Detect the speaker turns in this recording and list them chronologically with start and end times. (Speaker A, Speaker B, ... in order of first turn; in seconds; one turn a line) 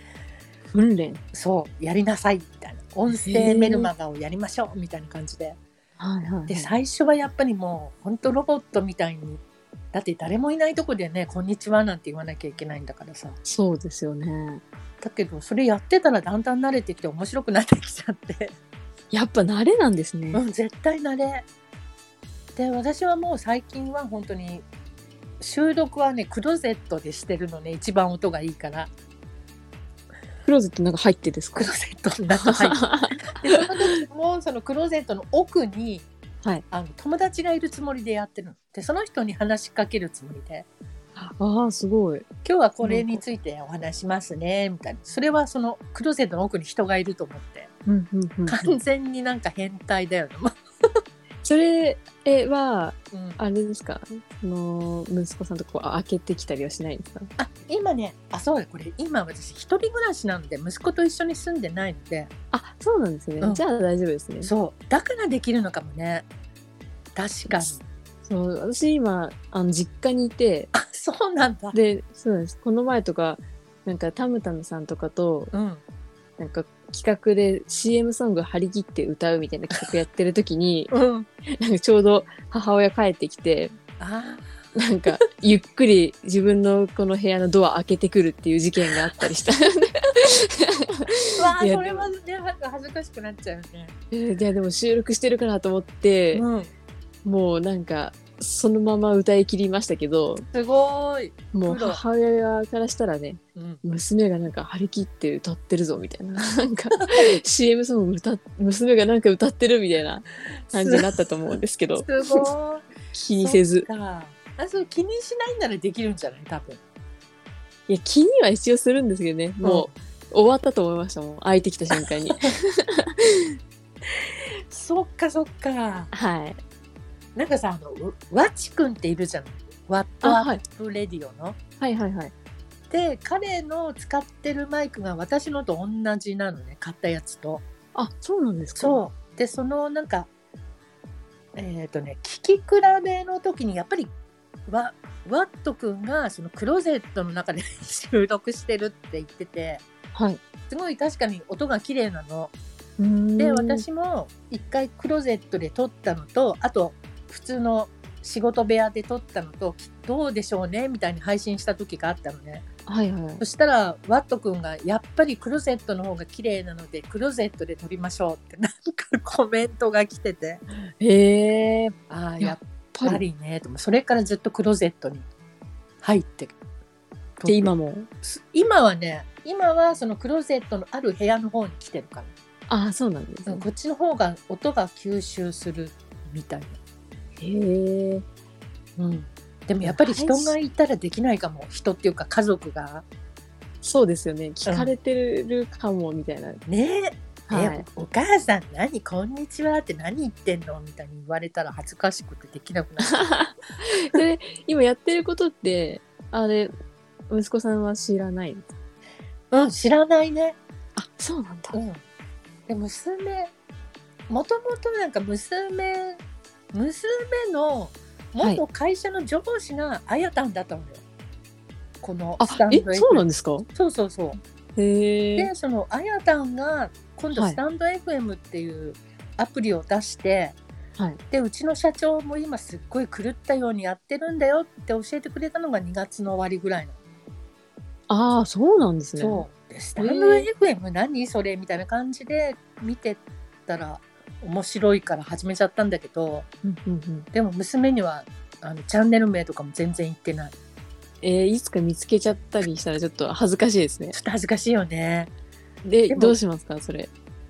Speaker A: 0.7-1.2
Speaker B: 1.3-5.6
Speaker A: 3.1-3.9
Speaker A: 6.0-6.7
Speaker B: 6.5-9.4
Speaker B: 9.9-13.4
Speaker A: 13.4-14.6
Speaker B: 15.0-18.6
Speaker A: 19.1-20.4
Speaker B: 20.3-21.5
Speaker B: 22.6-24.7
Speaker B: 25.4-28.9
Speaker A: 30.4-31.7
Speaker B: 31.6-36.1
Speaker A: 32.5-33.6
Speaker B: 36.7-40.7
Speaker A: 41.2-42.3
Speaker B: 42.4-47.7
Speaker A: 42.8-43.2
Speaker A: 47.9-48.8
Speaker B: 48.5-51.0
Speaker A: 51.4-57.3
Speaker B: 53.1-53.4
Speaker B: 57.4-62.3
Speaker A: 62.5-64.5
Speaker B: 64.4-66.3
Speaker B: 67.2-67.8
Speaker A: 68.2-70.7
Speaker B: 70.7-71.8
Speaker A: 71.7-75.5
Speaker B: 75.5-75.8
Speaker A: 76.4-80.9
Speaker B: 80.9-81.3
Speaker A: 81.5-83.8
Speaker B: 84.0-84.6
Speaker A: 84.8-92.1
Speaker B: 91.4-93.9
Speaker A: 94.1-96.5
Speaker B: 96.3-96.7
Speaker A: 97.2-100.5
Speaker B: 100.5-102.0
Speaker A: 101.5-112.5
Speaker B: 103.6-103.8
Speaker B: 110.7-111.2
Speaker B: 112.0-116.8
Speaker A: 113.1-113.9
Speaker A: 117.9-123.5
Speaker B: 119.6-119.9
Speaker B: 122.0-122.5
Speaker B: 124.1-126.1
Speaker A: 126.1-126.6
Speaker B: 127.4-131.6
Speaker A: 130.2-130.6
Speaker A: 131.8-132.3
Speaker B: 132.9-137.6
Speaker A: 137.9-139.0
Speaker B: 138.8-140.3
Speaker B: 141.6-144.1
Speaker B: 144.7-149.8
Speaker A: 150.2-150.4
Speaker B: 150.7-152.5
Speaker A: 153.0-153.8
Speaker B: 153.4-162.7
Speaker A: 162.9-163.4
Speaker B: 163.4-170.6
Speaker A: 171.0-173.2
Speaker B: 172.1-175.3
Speaker B: 176.0-176.6
Speaker B: 177.4-182.3
Speaker A: 177.5-178.1
Speaker A: 182.7-183.7
Speaker B: 183.5-186.8
Speaker A: 187.4-188.2
Speaker B: 189.0-193.1
Speaker A: 189.8-190.6
Speaker A: 193.8-196.6
Speaker B: 194.7-194.9
Speaker B: 196.7-203.4
Speaker A: 197.5-197.8
Speaker A: 203.1-206.7
Speaker A: 207.3-208.7
Speaker B: 209.5-210.6
Speaker A: 211.0-211.8
Speaker B: 211.7-212.0
Speaker B: 212.7-213.5
Speaker B: 214.3-216.2
Speaker B: 216.7-221.0
Speaker B: 222.0-224.4
Speaker A: 222.4-223.7
Speaker A: 224.8-225.5
Speaker B: 225.4-230.6
Speaker B: 231.3-237.0
Speaker A: 238.1-239.4
Speaker B: 239.2-246.5
Speaker A: 240.0-240.5
Speaker A: 246.6-247.3
Speaker B: 247.3-250.6
Speaker A: 251.2-254.2
Speaker B: 254.1-255.3
Speaker A: 255.8-257.1
Speaker B: 256.1-256.4